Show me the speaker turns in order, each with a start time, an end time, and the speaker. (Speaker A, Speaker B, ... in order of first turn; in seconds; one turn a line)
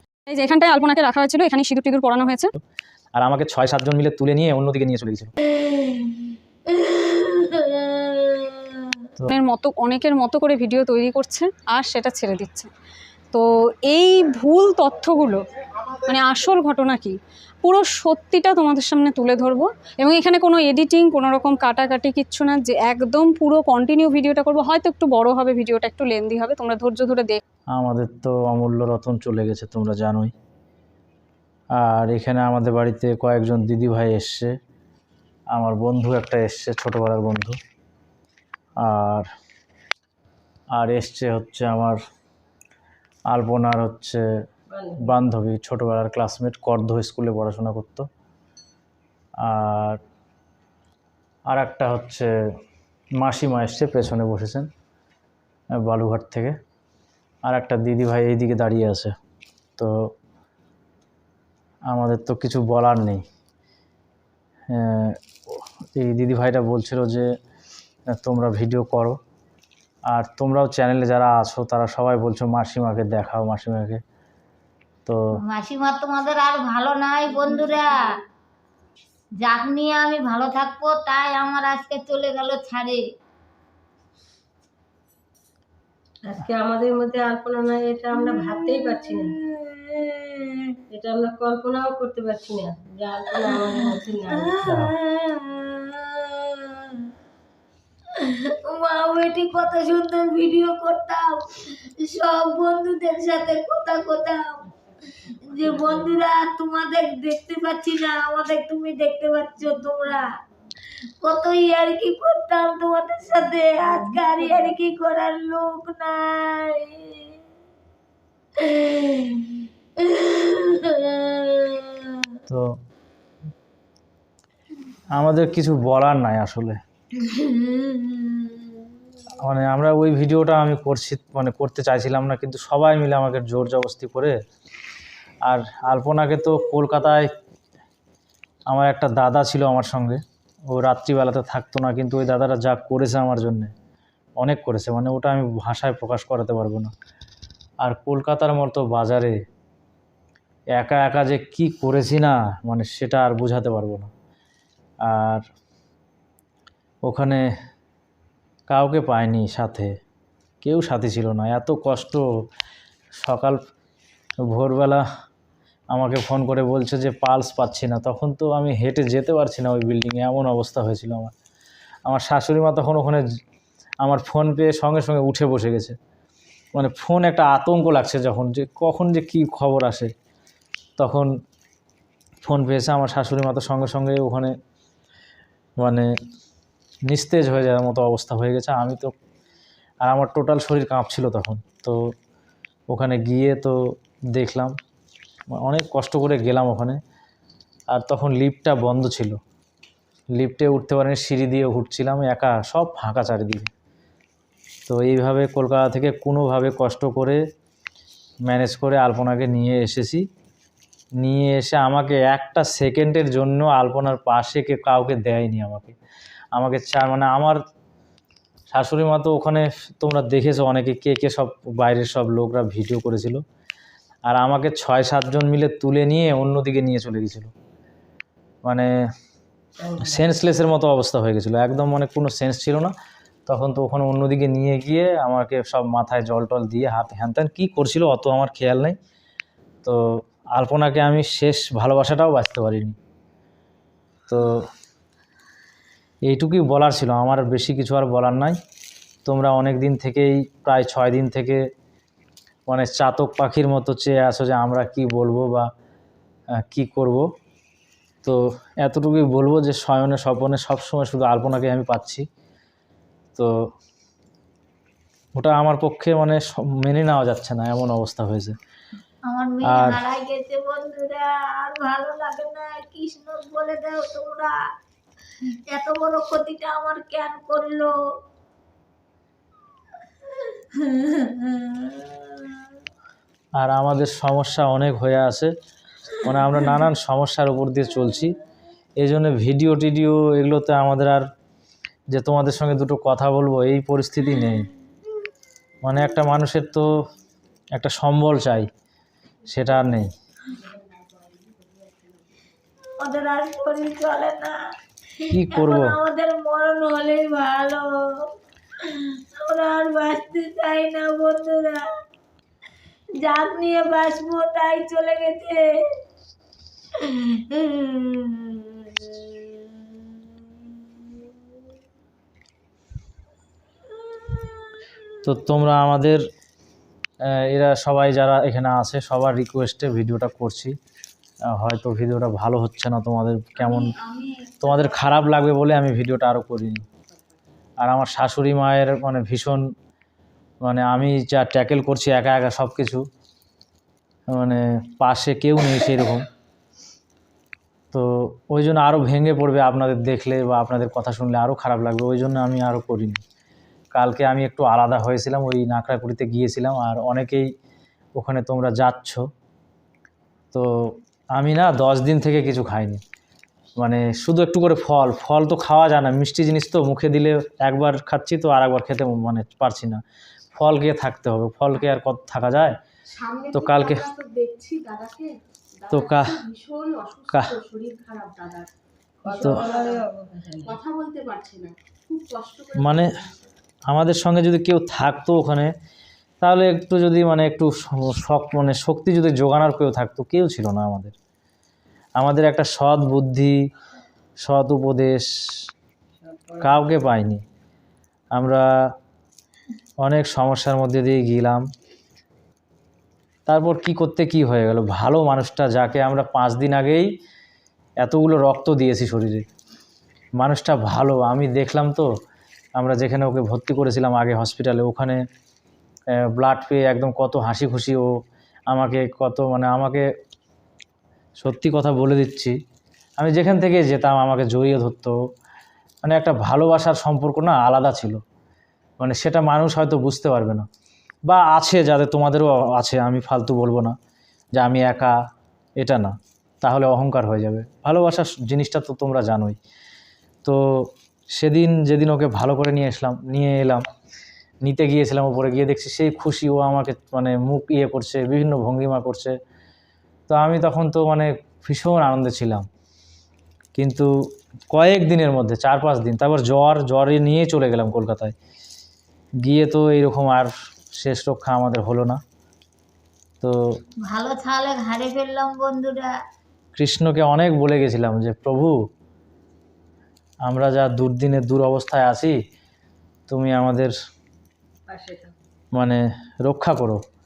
Speaker A: 0.3-2.5
Speaker B: 3.1-5.3
Speaker A: 9.3-12.7
Speaker A: 13.3-27.4
Speaker B: 27.7-30.3
Speaker B: 31.8-34.5
Speaker B: 35.5-37.5
Speaker B: 38.8-39.3
Speaker B: 40.7-42.0
Speaker B: 43.3-44.2
Speaker C: 44.7-45.1
Speaker B: 45.0-48.0
Speaker B: 49.4-50.0
Speaker B: 51.5-52.3
Speaker B: 53.2-54.7
Speaker B: 55.8-56.5
Speaker B: 57.4-59.1
Speaker B: 61.9-63.2
Speaker B: 64.7-67.2
Speaker B: 68.1-69.2
Speaker B: 70.1-74.0
Speaker B: 75.0-75.3
Speaker D: 75.4-78.1
Speaker C: 77.4-77.8
Speaker D: 79.4-83.0
Speaker C: 86.2-89.4
Speaker C: 90.9-94.6
Speaker B: 94.6-94.9
Speaker D: 94.9-95.6
Speaker D: 98.7-101.4
Speaker D: 102.0-104.6
Speaker D: 105.5-110.3
Speaker D: 111.2-116.8
Speaker C: 114.4-114.7
Speaker B: 125.1-126.8
Speaker D: 127.3-128.3
Speaker B: 129.4-134.3
Speaker B: 135.4-137.3
Speaker B: 138.7-143.7
Speaker B: 144.4-146.9
Speaker B: 147.8-149.4
Speaker B: 150.7-154.1
Speaker B: 155.1-155.4
Speaker B: 157.0-157.4
Speaker B: 158.7-159.9
Speaker B: 160.6-162.2
Speaker B: 163.2-163.6
Speaker B: 164.5-165.0
Speaker B: 165.9-171.3
Speaker B: 172.1-173.2
Speaker B: 174.0-175.9
Speaker B: 176.7-180.1
Speaker B: 181.0-181.3
Speaker B: 182.4-184.5
Speaker B: 185.8-186.1
Speaker B: 187.1-189.1
Speaker B: 190.0-192.0
Speaker B: 192.9-193.8
Speaker B: 194.3-194.7
Speaker B: 195.6-197.0
Speaker B: 197.9-199.3
Speaker B: 200.3-203.7
Speaker B: 204.9-207.4
Speaker B: 208.4-210.2
Speaker B: 211.2-215.9
Speaker B: 216.5-217.6
Speaker B: 218.7-223.4
Speaker B: 224.3-227.5
Speaker B: 228.6-228.9
Speaker C: 229.8-230.3
Speaker B: 230.0-232.9
Speaker B: 233.5-239.0
Speaker B: 240.5-242.9
Speaker B: 244.3-244.7
Speaker B: 246.2-248.6
Speaker B: 249.2-251.6
Speaker B: 252.7-255.7
Speaker B: 256.6-257.2
Speaker B: 258.2-262.2
Speaker B: 265.3-268.6
Speaker D: 269.2-274.6
Speaker B: 269.6-270.0
Speaker D: 275.7-277.9
Speaker D: 280.9-282.3
Speaker B: 283.6-285.5
Speaker B: 286.2-288.4
Speaker B: 289.0-291.2
Speaker B: 292.1-294.7
Speaker B: 295.8-296.9
Speaker B: 297.7-298.7
Speaker E: 299.5-302.4
Speaker B: 299.5-300.1
Speaker D: 303.0-304.6
Speaker B: 305.3-306.0
Speaker D: 305.5-308.0
Speaker D: 309.3-311.8
Speaker D: 313.2-315.6
Speaker D: 317.5-319.6
Speaker B: 325.2-326.2
Speaker B: 327.3-330.7
Speaker B: 331.5-333.9
Speaker A: 333.6-335.2
Speaker B: 334.6-336.8
Speaker B: 337.8-339.6
Speaker B: 340.6-343.0
Speaker B: 344.3-346.2
Speaker B: 347.9-353.2
Speaker B: 353.9-357.5
Speaker B: 358.1-359.2
Speaker B: 360.5-363.0
Speaker B: 363.8-370.0
Speaker B: 370.5-372.8
Speaker E: 373.1-375.3
Speaker B: 373.5-374.1
Speaker E: 375.8-378.7
Speaker B: 375.9-376.4
Speaker B: 377.3-377.6
Speaker C: 379.2-380.8
Speaker E: 379.2-380.0
Speaker B: 379.4-379.6
Speaker E: 380.6-383.5
Speaker B: 382.8-383.1
Speaker B: 383.9-385.7
Speaker B: 386.4-391.1
Speaker B: 392.2-393.6
Speaker B: 394.4-395.3
Speaker C: 396.2-396.8
Speaker B: 396.6-397.4
Speaker B: 398.3-398.6
Speaker B: 400.0-401.6
Speaker B: 403.5-407.1
Speaker B: 408.0-409.4
Speaker B: 410.4-412.1
Speaker B: 412.8-415.2
Speaker B: 416.2-418.1
Speaker B: 418.7-420.1
Speaker B: 421.4-422.5
Speaker B: 423.2-425.2
Speaker B: 426.0-428.2
Speaker B: 429.0-430.6
Speaker B: 431.2-433.9
Speaker B: 434.5-435.1
Speaker B: 435.8-439.6
Speaker B: 440.4-443.8
Speaker B: 444.6-449.3
Speaker B: 450.3-452.6
Speaker B: 453.7-454.1
Speaker B: 454.7-458.3
Speaker B: 459.4-462.2
Speaker D: 464.0-466.1
Speaker B: 466.8-468.8
Speaker B: 470.4-472.4
Speaker B: 473.3-473.9
Speaker C: 474.9-475.3
Speaker B: 475.7-477.0